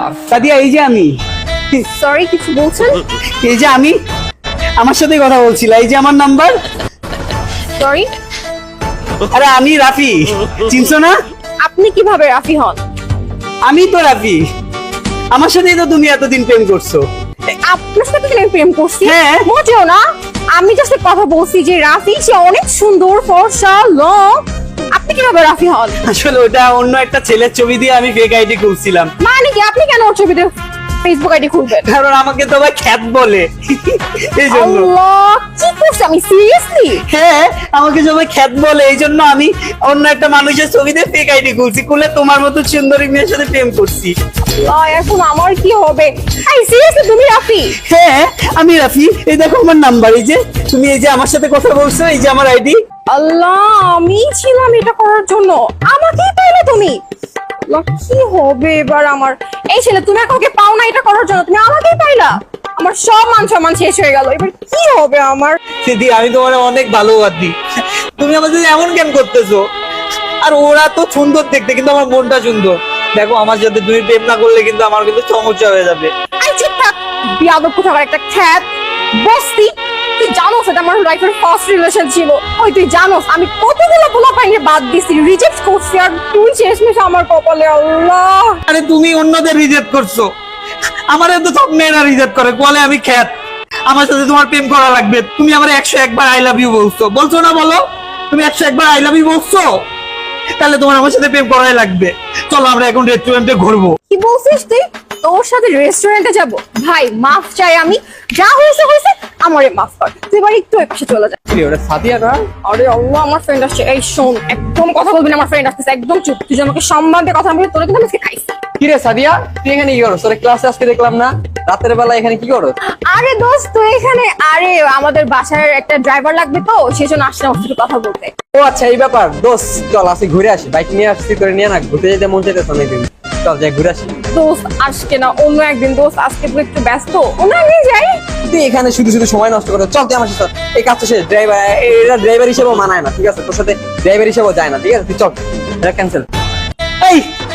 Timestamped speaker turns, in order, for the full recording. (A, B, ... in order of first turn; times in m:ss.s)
0:00.3-0:01.1 A
0:01.9-0:03.0 B
0:03.4-0:04.0 A
0:04.8-0:06.6 A
0:07.8-0:08.1 B
0:09.3-0:11.1 A
0:11.6-0:12.8 B
0:13.6-0:14.4 A
0:15.3-0:17.0 A
0:17.6-0:20.0 B
0:19.0-0:19.4 A
0:20.6-0:26.0 B
0:26.1-0:29.1 A
0:29.2-0:31.9 B
0:31.9-0:34.9 A
0:34.5-0:37.0 B
0:37.1-0:44.1 A
0:44.5-0:47.8 B
0:47.8-0:52.8 A
0:53.1-0:57.0 B
0:57.7-1:05.6 B
1:05.8-1:07.6 A
1:08.2-1:09.6 A
1:10.4-1:16.1 A
1:16.4-1:28.6 B
1:28.7-1:30.3 A
1:31.1-1:33.3 A
1:33.9-1:39.7 A
1:40.6-1:44.0 A
1:44.1-1:51.4 B
1:51.5-1:52.5 C
1:52.6-1:58.6 B
1:58.8-2:02.7 C
2:03.1-2:08.3 B
2:08.5-2:14.2 C
2:14.3-2:18.2 B
2:18.5-2:26.2 C
2:27.0-2:27.3 A